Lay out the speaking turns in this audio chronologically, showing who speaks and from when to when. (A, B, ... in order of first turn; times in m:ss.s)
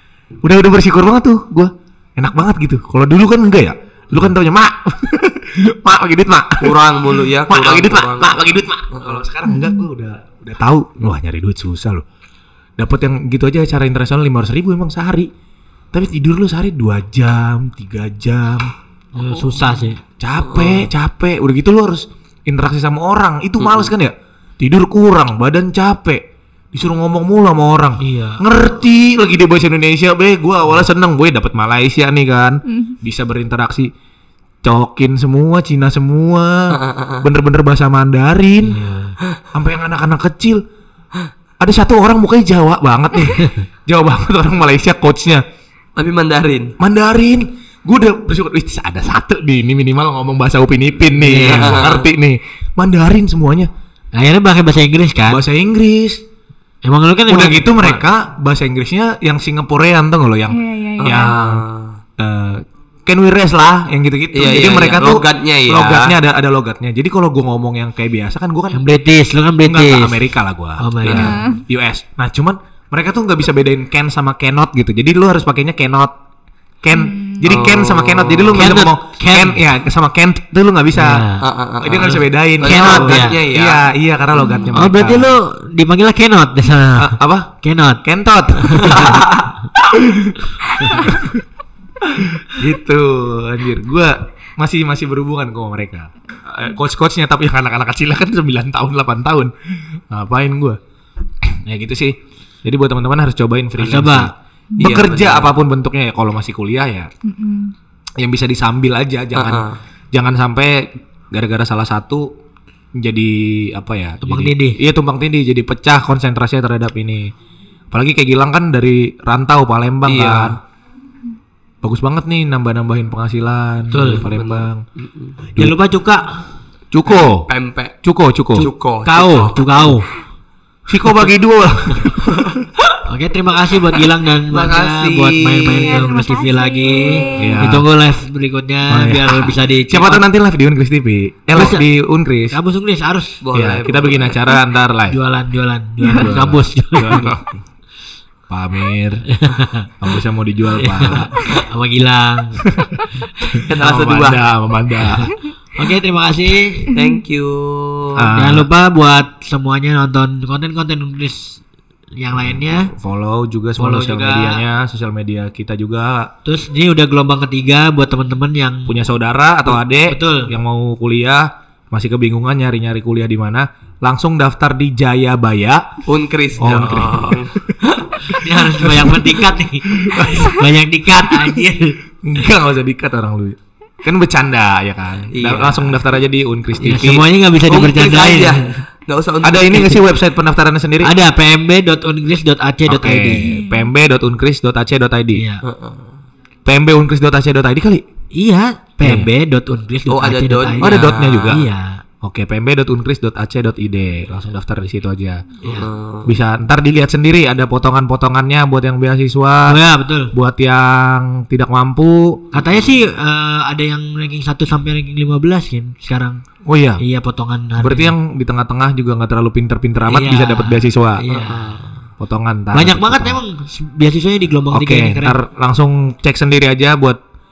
0:00.4-0:06.8 A
0:06.6-0:08.4 B
0:07.5-0:12.0 A
0:08.9-0:09.2 B
0:09.5-0:09.8 C
0:12.8-0:15.3 A
0:15.9-0:18.7 A
0:19.1-0:20.0 D
0:19.2-0:19.8 B
0:20.2-0:33.9 A
0:20.4-0:20.9 B
0:23.6-0:23.9 B
0:28.0-0:28.4 D
0:34.6-0:38.8 A
0:36.7-0:37.3 B
0:38.6-0:39.2 D
0:39.5-0:40.6 A
0:41.6-0:45.4 A
0:46.0-0:46.7 B
0:46.8-0:53.7 A
0:51.1-0:51.8 D
0:51.4-0:52.1 B
0:54.1-0:55.4 D
0:55.3-0:56.2 A
0:56.8-0:58.0 D
0:57.3-1:01.6 A
1:00.5-1:01.4 C
1:01.0-1:02.0 B
1:02.2-1:08.9 A
1:04.3-1:06.2 B
1:08.7-1:10.3 D
1:09.6-1:16.1 A
1:10.8-1:11.5 D
1:11.0-1:11.4 B
1:11.1-1:11.6 C
1:16.8-1:21.3 A
1:16.9-1:17.5 C
1:17.4-1:18.8 B
1:18.5-1:19.6 D
1:20.9-1:21.4 D
1:21.4-1:24.7 B
1:21.8-1:25.3 A
1:22.6-1:23.4 D
1:24.7-1:28.0 D
1:27.0-1:27.5 A
1:28.0-1:29.3 A
1:28.6-1:29.2 D
1:28.9-1:29.5 B
1:29.9-1:31.4 A
1:30.8-1:31.1 D
1:32.4-1:39.5 A
1:40.1-1:40.8 A
1:41.4-1:47.1 A
1:43.8-1:44.3 D
1:44.8-1:45.5 B
1:47.2-1:47.7 C
1:48.2-1:52.3 A
1:49.4-1:49.8 B
1:53.0-1:57.3 A
1:54.2-1:54.8 D
1:57.9-2:00.6 A
2:00.1-2:00.6 B
2:01.8-2:04.8 A
2:03.9-2:04.3 D
2:03.9-2:05.4 B
2:05.6-2:06.2 D
2:06.9-2:07.5 A
2:07.2-2:08.0 B
2:08.0-2:08.7 A
2:08.5-2:09.9 B
2:09.1-2:10.1 D
2:09.2-2:09.5 A
2:10.9-2:12.5 A
2:12.3-2:13.0 B
2:13.0-2:20.2 D
2:14.5-2:16.1 B
2:15.8-2:17.6 C
2:17.4-2:17.8 A
2:18.9-2:22.6 A
2:21.5-2:21.9 D
2:22.5-2:23.4 D
2:23.4-2:24.4 B
2:23.5-2:25.2 A
2:25.1-2:27.4 D
2:26.1-2:27.6 A
2:28.5-2:29.3 A
2:29.3-2:29.9 D
2:30.0-2:31.4 A
2:30.8-2:32.7 D
2:32.6-2:33.0 A
2:33.6-2:34.4 B
2:33.7-2:35.3 A
2:35.8-2:36.9 D
2:36.9-2:38.3 B
2:38.2-2:38.7 A
2:38.4-2:41.6 D
2:42.2-2:42.9 D
2:42.9-2:46.3 A
2:43.8-2:44.6 D
2:46.4-2:49.0 D
2:48.9-2:55.8 A
2:50.1-2:50.5 D
2:56.1-2:58.4 B
2:56.6-2:57.4 A
2:58.3-3:02.0 D
2:58.6-3:00.7 A
3:01.3-3:01.6 A
3:02.2-3:07.2 A
3:05.3-3:06.0 B
3:06.8-3:08.8 D
3:07.7-3:10.0 B
3:09.4-3:11.1 A
3:11.0-3:13.5 D
3:12.9-3:15.4 A
3:13.4-3:13.9 C
3:15.3-3:15.6 D
3:15.6-3:16.2 B
3:16.6-3:18.0 A
3:18.3-3:22.0 D
3:19.0-3:19.3 A
3:20.1-3:21.6 B
3:20.8-3:21.6 A
3:22.2-3:25.7 A
3:25.8-3:26.3 B
3:26.3-3:29.8 A
3:29.7-3:30.3 D
3:30.3-3:32.4 A
3:32.5-3:36.4 D
3:36.6-3:37.0 A
3:37.0-3:38.1 D
3:37.8-3:41.2 A
3:40.1-3:41.8 D
3:41.3-3:42.0 B
3:42.2-3:43.4 A
3:42.7-3:45.4 D
3:44.7-3:47.2 A